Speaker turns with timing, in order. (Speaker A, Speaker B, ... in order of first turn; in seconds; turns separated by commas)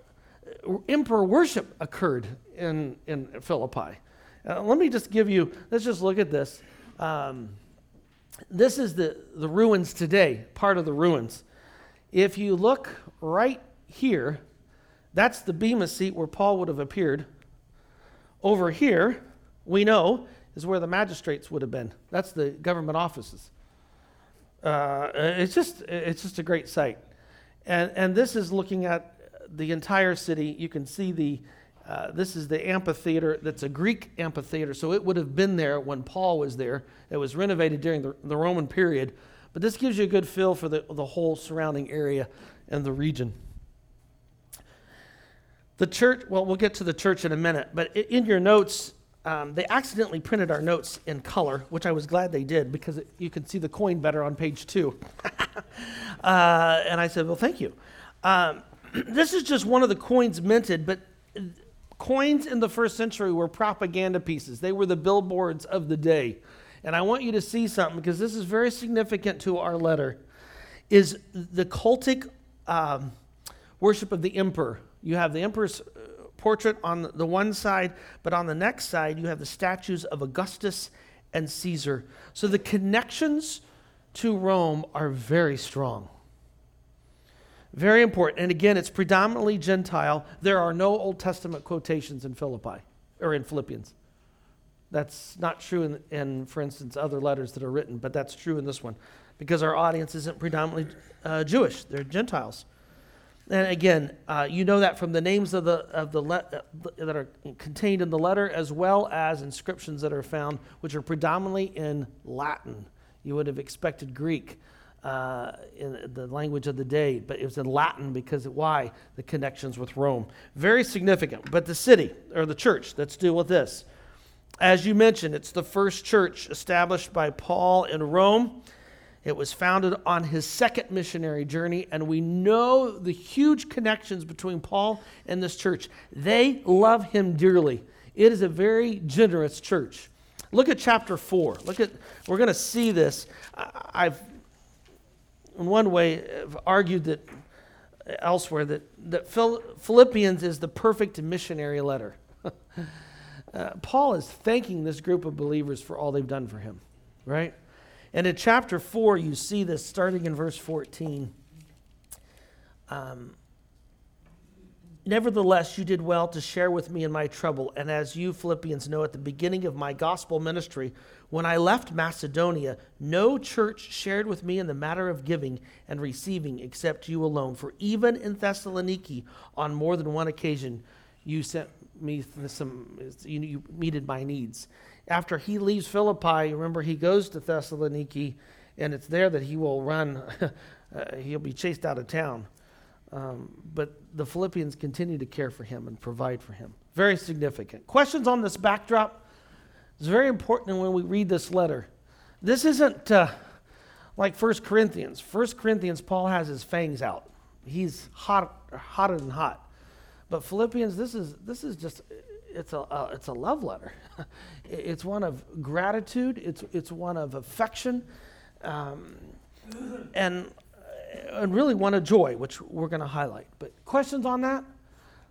Speaker A: 0.5-7.6, Speaker A: 8.5-11.4, Speaker A: 12.1-14.4, Speaker A: 15.1-17.3, Speaker A: 18.4-23.5, Speaker A: 24.6-27.0, Speaker A: 27.7-43.4, Speaker A: 45.8-70.2, Speaker A: 70.9-73.1, Speaker A: 73.8-83.6, Speaker A: 84.1-86.1, Speaker A: 87.7-93.9, Speaker A: 94.9-102.7, Speaker A: 103.5-123.9, Speaker A: 124.6-128.6, Speaker A: 129.2-144.3, Speaker A: 145.6-147.3, Speaker A: 148.1-152.2, Speaker A: 153.5-157.6, Speaker A: 158.1-161.3, Speaker A: 162.9-163.4, Speaker A: 165.1-192.5, Speaker A: 193.1-199.2, Speaker A: 200.0-201.9, Speaker A: 202.4-203.4, Speaker A: 204.2-209.7, Speaker A: 210.3-218.1, Speaker A: 218.6-219.4, Speaker A: 220.1-224.7